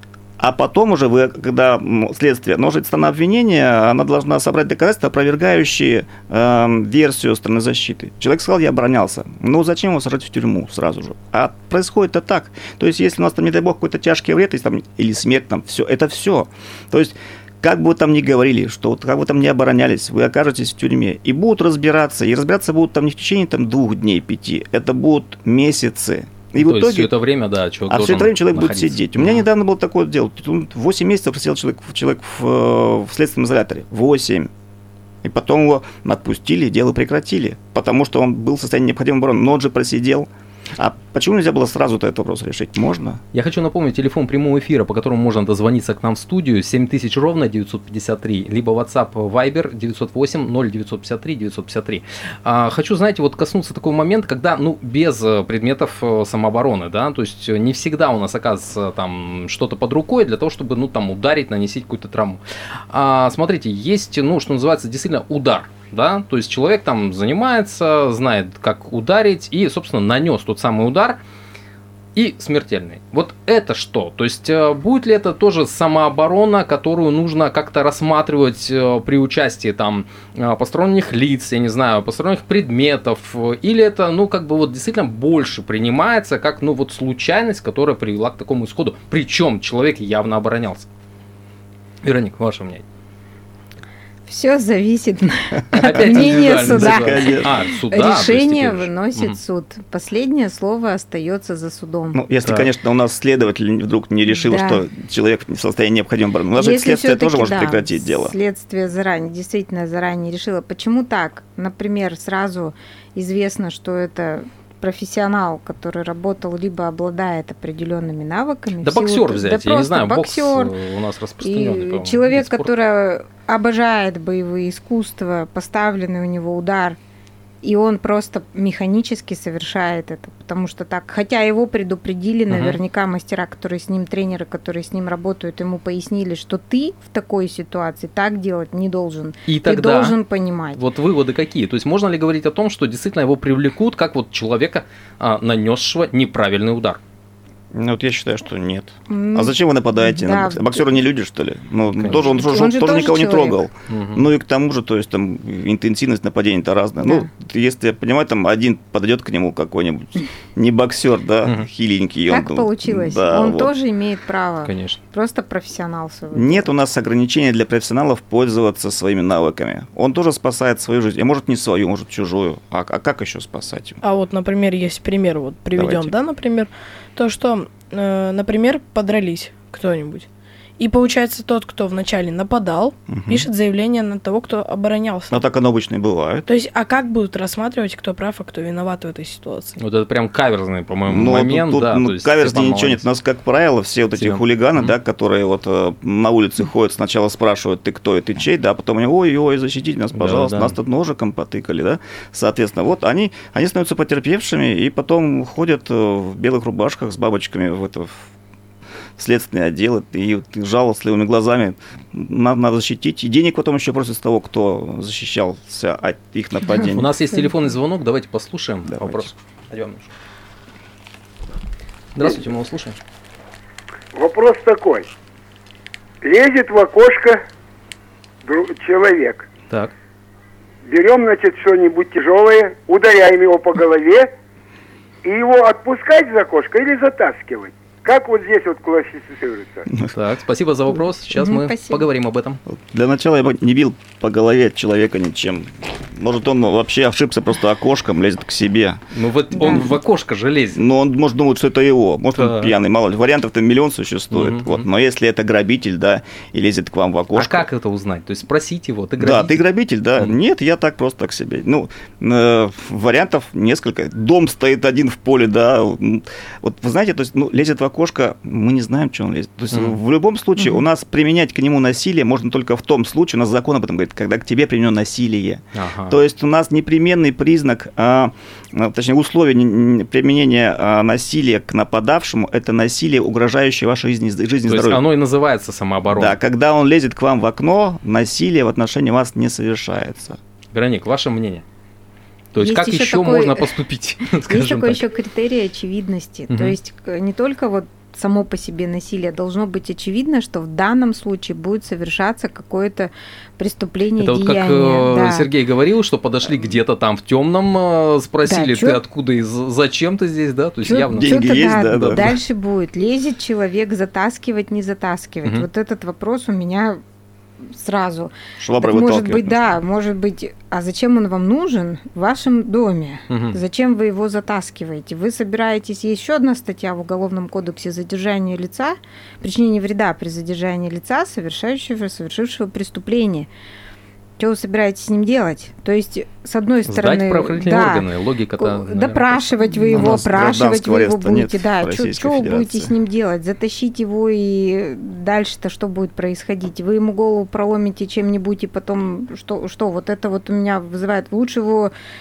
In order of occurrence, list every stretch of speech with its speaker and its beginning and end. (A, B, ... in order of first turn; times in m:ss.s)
0:00.4-0:27.1 A
0:26.6-0:29.4 B
0:27.9-0:34.5 A
0:35.2-0:43.2 A
0:43.3-1:11.2 B
1:12.2-1:30.9 B
1:32.0-1:32.8 B
1:34.3-1:42.2 C
1:35.7-1:37.6 A
1:35.8-1:39.4 B
1:42.1-1:48.3 A
1:44.4-1:44.8 C
1:46.6-2:00.7 C
1:58.8-2:02.7 B
2:01.4-2:07.0 C
2:07.6-2:20.8 C
2:12.5-2:12.8 B
2:19.5-2:20.2 B
2:20.7-2:27.0 B
2:27.7-2:43.7 A
2:29.1-2:31.0 C
2:32.0-2:33.6 C
2:33.9-2:34.3 B
2:37.0-2:37.3 C
2:42.3-2:46.7 C
2:44.6-2:45.0 B
2:46.3-2:54.0 A
2:54.0-3:00.3 D
2:55.7-2:56.1 A
3:00.8-3:05.4 D
3:03.1-3:03.5 A
3:05.3-3:06.5 A
3:06.5-3:09.8 D
3:09.8-3:13.0 B
3:11.0-3:28.3 A
3:14.2-3:14.9 B
3:20.1-3:20.8 B
3:29.2-3:37.1 A
3:36.9-3:40.1 B
3:38.9-3:39.2 A
3:42.1-3:43.0 B
3:44.1-3:45.1 E
3:46.2-3:47.4 E
3:48.4-3:49.4 E
3:50.8-3:54.3 E
3:55.2-3:59.9 E
4:00.1-4:02.6 B
4:01.3-4:02.1 C
4:02.7-4:09.0 A
4:09.1-4:10.8 B
4:09.6-4:09.9 C
4:09.6-4:09.9 A
4:10.7-4:17.6 A
4:12.4-4:12.7 B
4:14.3-4:14.8 B
4:17.3-4:19.6 B
4:19.2-4:45.0 A
4:30.6-4:30.8 C
4:35.7-4:36.2 B
4:44.7-4:46.4 B
4:46.1-4:50.4 A
4:50.7-4:51.6 B
4:52.5-4:55.0 B
4:52.6-4:53.8 C
4:54.3-5:05.5 C
4:56.5-4:56.8 B
5:04.2-5:12.3 B
5:06.5-5:06.7 C
5:08.4-5:09.0 C
5:10.8-5:17.0 C
5:11.1-5:12.3 A
5:17.7-5:33.5 C
5:18.6-5:19.7 A
5:23.3-5:23.6 B
5:34.4-5:38.1 C
5:36.9-5:40.2 B
5:38.6-5:51.9 C
5:39.9-5:42.9 A